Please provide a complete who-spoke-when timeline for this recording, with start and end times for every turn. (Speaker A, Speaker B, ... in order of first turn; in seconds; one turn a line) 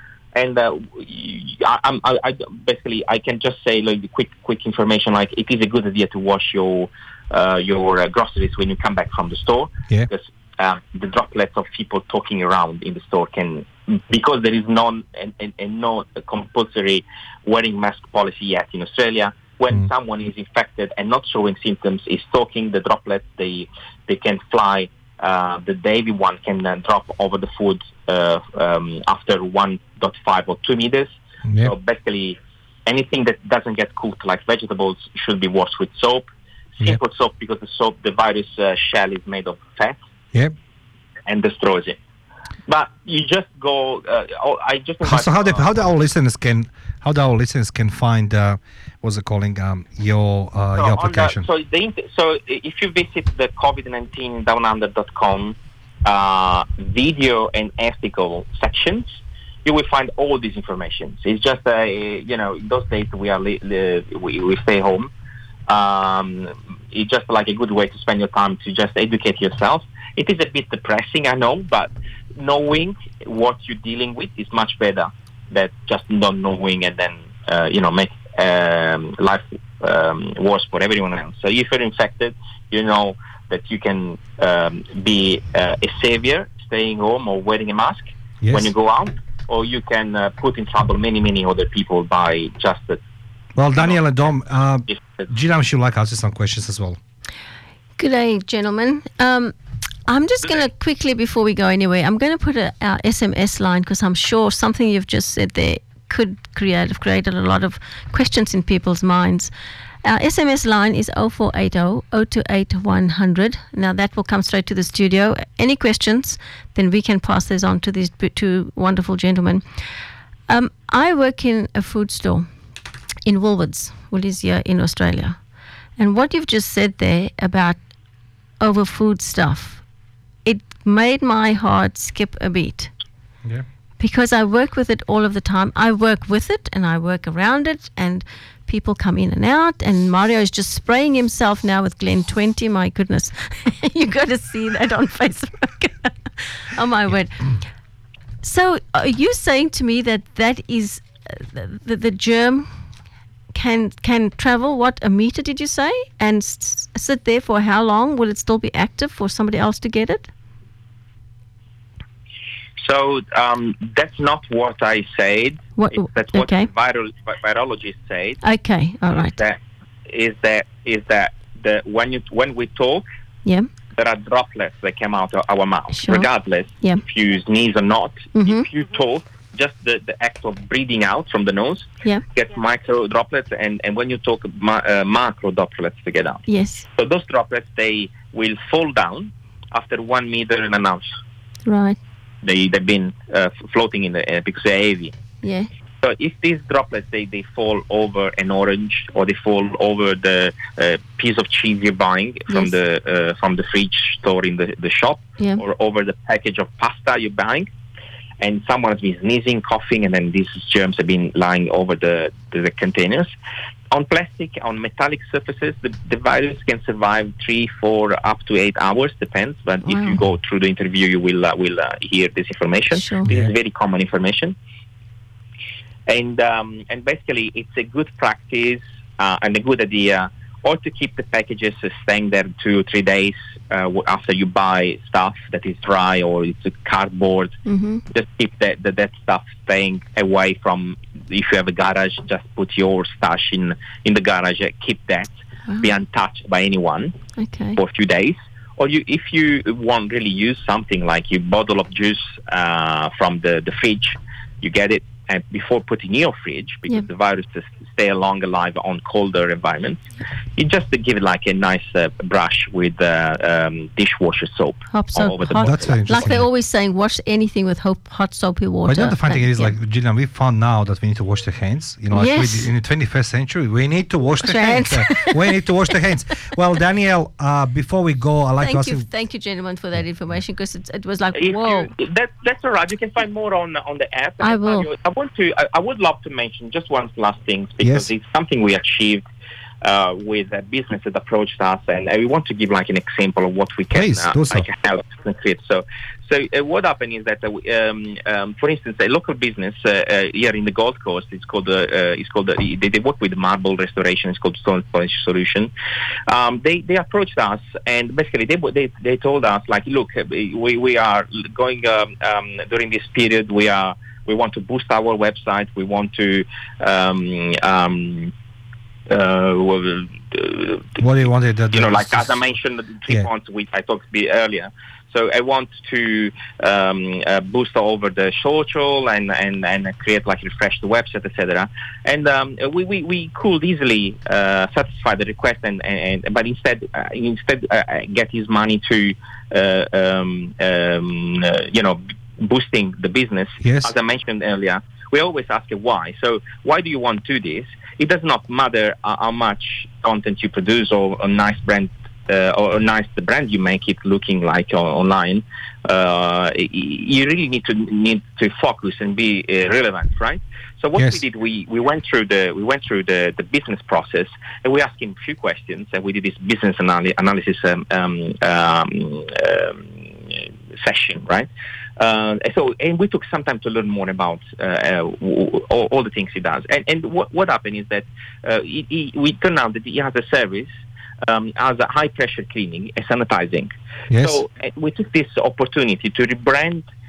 Speaker A: 0.3-40.0
Speaker B: 31.4-31.7
Speaker A: 41.2-42.0
Speaker A: 42.7-45.9
Speaker B: 45.0-51.5
Speaker A: 50.8-65.1
Speaker A: 65.7-93.0
Speaker B: 88.4-88.7
Speaker B: 93.5-97.0
Speaker A: 94.9-95.2
Speaker C: 98.0-99.5
Speaker C: 100.1-109.5
Speaker C: 110.0-119.6
Speaker C: 120.5-122.5
Speaker C: 123.2-125.4
Speaker C: 126.0-127.8
Speaker C: 128.6-129.8
Speaker C: 130.4-132.9
Speaker C: 134.0-147.6
Speaker C: 148.4-152.7
Speaker C: 153.5-160.3
Speaker A: 162.8-168.4
Speaker C: 165.8-166.7
Speaker C: 168.4-169.4
Speaker A: 169.4-173.1
Speaker A: 173.9-186.4
Speaker C: 176.0-176.3
Speaker C: 178.3-178.7
Speaker C: 186.5-186.9
Speaker A: 187.0-191.1
Speaker C: 191.7-192.0
Speaker A: 192.4-195.1
Speaker C: 195.4-195.7
Speaker A: 196.0-207.7
Speaker A: 208.4-213.3
Speaker A: 213.9-224.6
Speaker C: 219.8-220.2
Speaker C: 222.9-223.3
Speaker B: 223.2-223.5
Speaker A: 226.1-237.6
Speaker C: 237.7-238.0
Speaker A: 238.1-247.1
Speaker C: 247.4-247.8
Speaker A: 247.8-260.0
Speaker A: 260.6-266.1
Speaker C: 264.9-269.7
Speaker B: 265.6-266.5
Speaker B: 268.9-279.1
Speaker C: 272.1-272.7
Speaker C: 274.4-275.6
Speaker C: 278.6-281.9
Speaker A: 281.3-289.2
Speaker C: 284.4-284.9
Speaker B: 287.8-288.1
Speaker A: 289.8-305.7
Speaker B: 293.9-294.6
Speaker A: 306.3-318.3
Speaker A: 319.1-321.0
Speaker B: 321.0-322.4
Speaker A: 321.7-380.7
Speaker B: 343.6-343.9
Speaker B: 360.9-361.2
Speaker A: 381.2-386.9
Speaker B: 384.1-384.4